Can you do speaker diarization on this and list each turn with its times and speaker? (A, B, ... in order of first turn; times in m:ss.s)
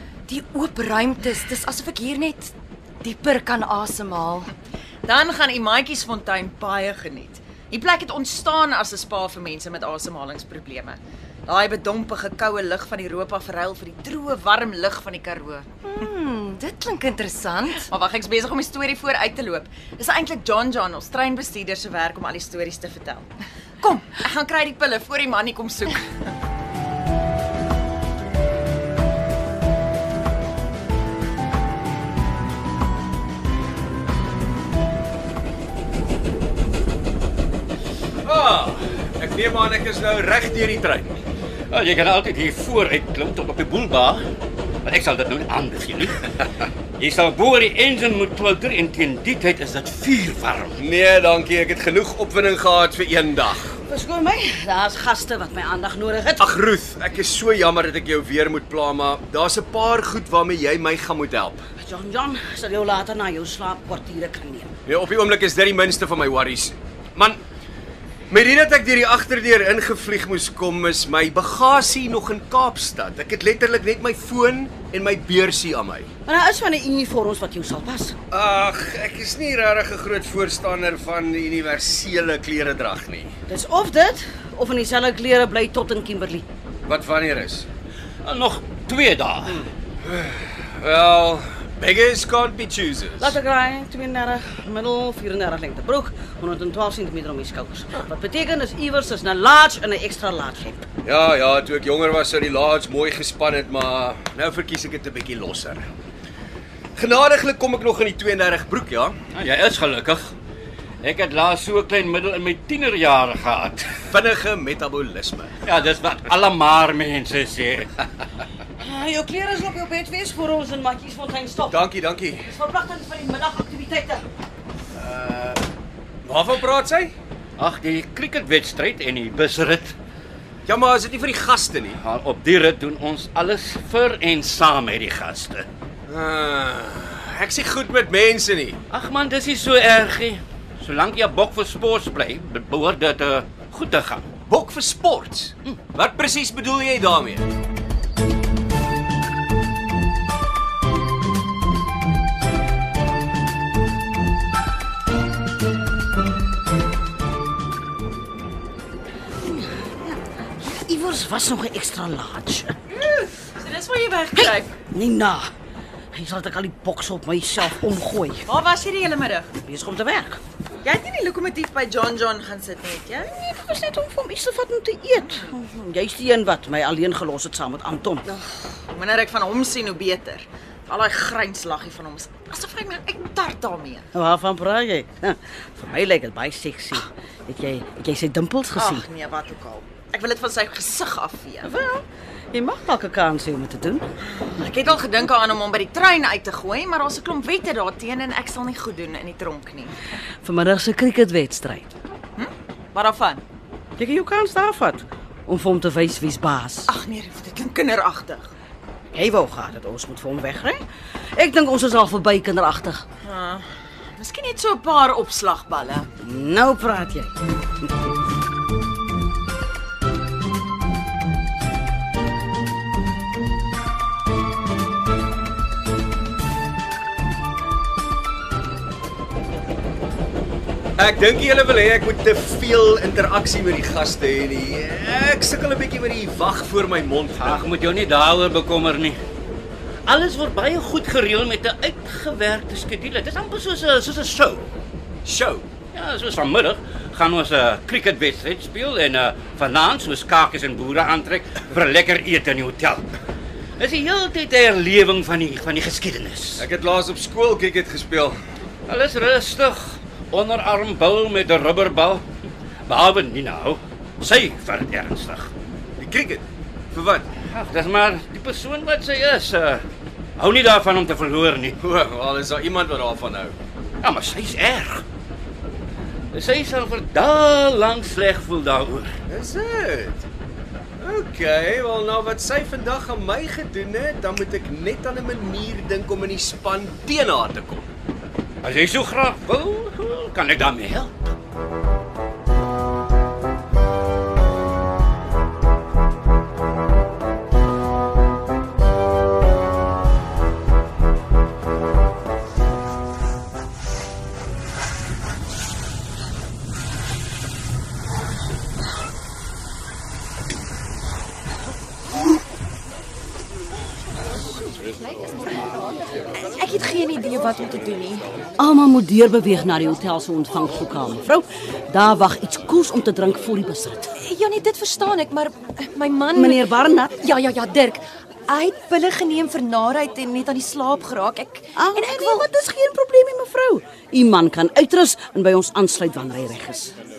0:00.3-0:02.5 A
0:03.0-0:04.5 A
0:05.1-0:15.7 B
0:15.8-0:17.9 A
0:17.8-0:23.3 B
0:23.8-0:26.3 B
0:38.2-0:41.2 C
0:41.7-0:44.2 D
0:44.8-0:50.8 D
0:50.8-0:53.7 C
0:53.9-0:56.5 E
0:56.4-1:01.6 C
1:01.8-1:04.7 E
1:04.9-1:07.4 C
1:08.3-1:16.1 C
1:16.3-1:18.2 E
1:18.3-1:23.3 C
1:23.5-1:26.5 E
1:26.9-1:27.7 C
1:28.2-1:29.7 D
1:30.0-1:33.4 C
1:33.2-1:40.9 E
1:41.0-1:45.8 C
1:47.0-1:49.2 C
1:49.3-1:50.3 D
1:51.0-1:53.8 D
1:54.1-1:55.6 C
1:55.6-1:57.9 D
1:58.8-2:01.8 E
2:01.7-2:02.5 C
2:02.4-2:04.2 E
2:05.0-2:05.6 C
2:06.2-2:07.1 C
2:07.6-2:09.9 D
2:10.7-2:12.0 C
2:12.0-2:15.7 D
2:16.1-2:18.8 C
2:18.9-2:24.3 D
2:24.5-2:27.5 C
2:39.4-2:42.8 E
2:43.6-2:44.7 B
2:44.4-2:45.5 E
2:46.1-2:48.5 E
2:48.5-2:49.5 B
2:49.6-2:50.4 E
2:50.8-2:53.3 B
2:53.3-2:58.3 E
2:55.2-2:55.5 B
2:58.3-3:04.1 B
3:04.1-3:09.1 E
3:08.7-3:11.7 B
3:11.6-3:14.1 E
3:14.5-3:19.9 B
3:20.4-3:21.9 E
3:22.4-3:23.4 B
3:24.0-3:26.9 E
3:26.9-3:28.5 B
3:29.1-3:30.8 E
3:31.4-3:33.0 E
3:33.2-3:33.7 B
3:34.2-3:36.1 B
3:36.2-3:37.3 E
3:51.0-3:57.6 C
3:57.4-3:59.2 D
4:00.1-4:04.7 D
4:05.2-4:05.6 C
4:05.9-4:13.1 D
4:13.8-4:16.6 D
4:16.6-4:18.4 C
4:18.9-4:22.2 D
4:22.9-4:25.5 D
4:26.0-4:27.3 C
4:27.5-4:29.8 D
4:30.4-4:31.8 D
4:31.8-4:33.5 C
4:34.0-4:35.0 D
4:36.3-4:39.1 D
4:39.3-4:40.3 C
4:41.0-4:47.9 C
4:48.6-4:51.3 D
5:16.4-5:18.3 A
5:18.6-5:24.1 E
5:24.2-5:26.6 A
5:26.3-5:27.2 E
5:27.2-5:32.5 A
5:31.8-5:36.9 E